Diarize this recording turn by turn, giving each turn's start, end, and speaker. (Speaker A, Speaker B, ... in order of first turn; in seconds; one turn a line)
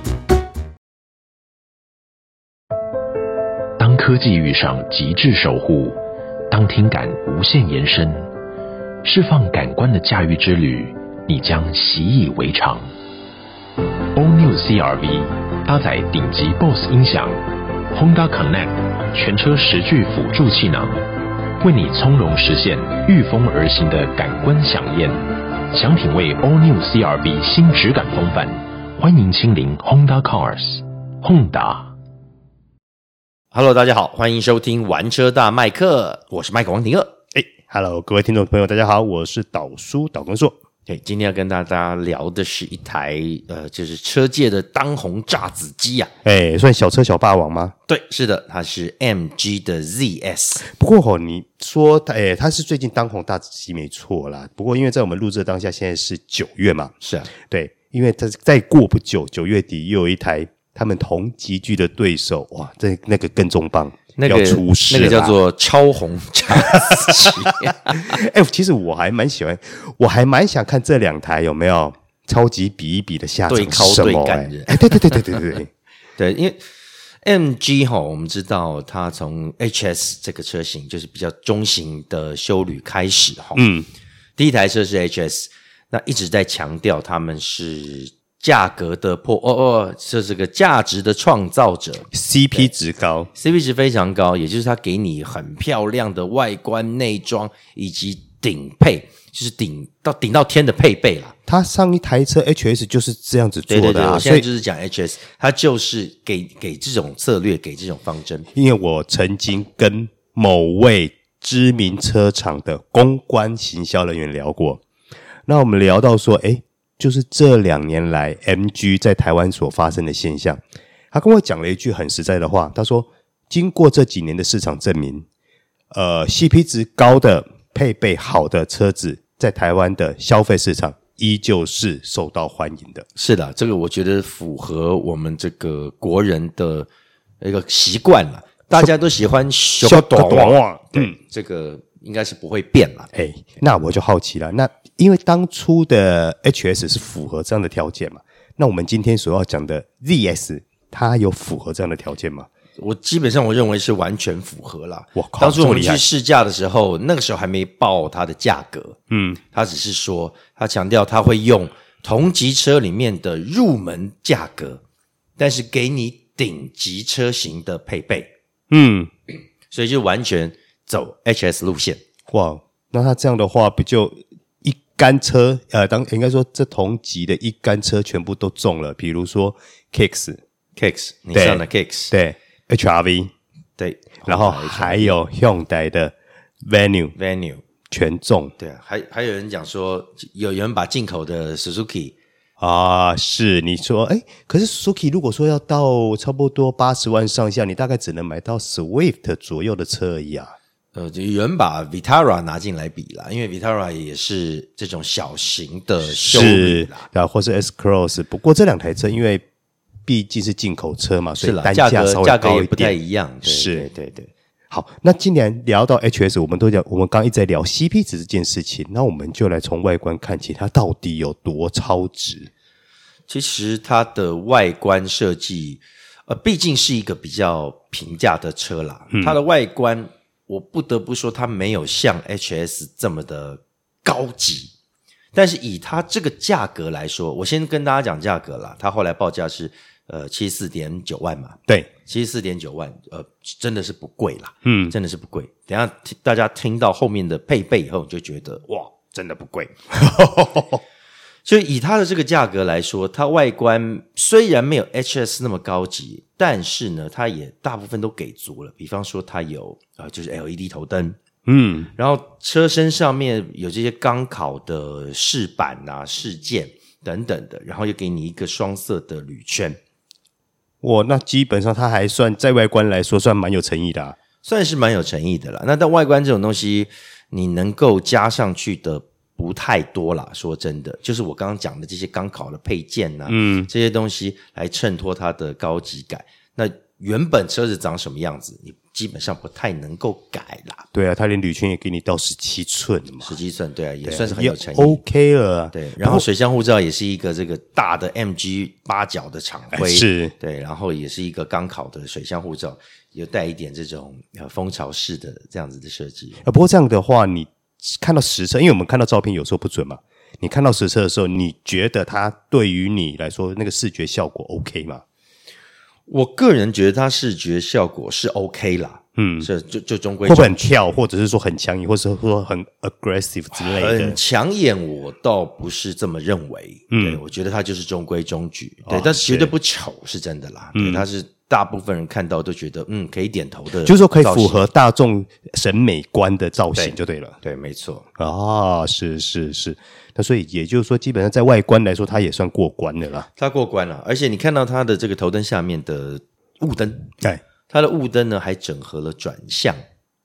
Speaker A: 3.8-6.0
Speaker A: 6.5-8.3
Speaker A: 9.0-12.9
Speaker A: 14.1-17.4
Speaker A: 17.9-21.0
Speaker A: 21.6-31.9
Speaker B: 33.5-37.2
Speaker C: 37.3-40.5
Speaker B: 40.9-46.1
Speaker C: 46.2-47.7
Speaker B: 47.9-50.6
Speaker C: 50.6-65.3
Speaker B: 57.0-57.3
Speaker B: 64.2-68.2
Speaker C: 66.5-75.7
Speaker B: 73.5-75.4
Speaker B: 76.2-76.6
Speaker B: 77.2-83.7
Speaker C: 83.5-83.9
Speaker B: 84.4-92.7
Speaker C: 92.1-93.3
Speaker B: 93.3-101.3
Speaker C: 101.5-104.4
Speaker B: 103.7-108.5
Speaker C: 108.5-114.8
Speaker C: 115.5-125.2
Speaker C: 125.9-133.1
Speaker B: 133.2-136.9
Speaker B: 137.4-143.1
Speaker C: 139.8-141.1
Speaker C: 143.1-152.5
Speaker B: 152.8-159.0
Speaker C: 155.2-156.0
Speaker C: 159.1-159.4
Speaker B: 159.5-164.8
Speaker B: 165.4-168.3
Speaker C: 168.7-169.1
Speaker B: 169.7-172.0
Speaker C: 172.3-180.4
Speaker B: 180.8-182.1
Speaker C: 181.3-183.3
Speaker B: 183.8-185.2
Speaker C: 184.2-187.2
Speaker B: 187.2-187.6
Speaker C: 187.9-188.5
Speaker B: 188.6-192.1
Speaker C: 192.6-200.5
Speaker B: 200.9-207.1
Speaker C: 206.1-209.4
Speaker C: 210.1-213.9
Speaker B: 211.4-214.3
Speaker C: 214.7-222.5
Speaker B: 223.3-234.7
Speaker C: 229.1-229.4
Speaker B: 235.3-249.8
Speaker C: 244.6-244.9
Speaker C: 249.9-250.8
Speaker B: 251.4-261.2
Speaker C: 261.4-261.9
Speaker B: 261.9-269.8
Speaker C: 270.8-274.2
Speaker B: 274.4-290.9
Speaker C: 283.3-283.7
Speaker C: 290.9-293.3
Speaker B: 293.2-295.0
Speaker C: 294.1-296.2
Speaker B: 295.7-306.4
Speaker C: 299.7-300.3
Speaker C: 306.4-315.0
Speaker B: 316.1-320.7
Speaker C: 319.2-319.5
Speaker C: 320.2-324.2
Speaker B: 323.5-334.6
Speaker C: 326.9-327.2
Speaker C: 328.9-329.5
Speaker C: 330.7-331.1
Speaker C: 333.8-337.4
Speaker B: 336.8-338.1
Speaker C: 338.2-343.3
Speaker B: 343.4-347.1
Speaker B: 347.7-349.8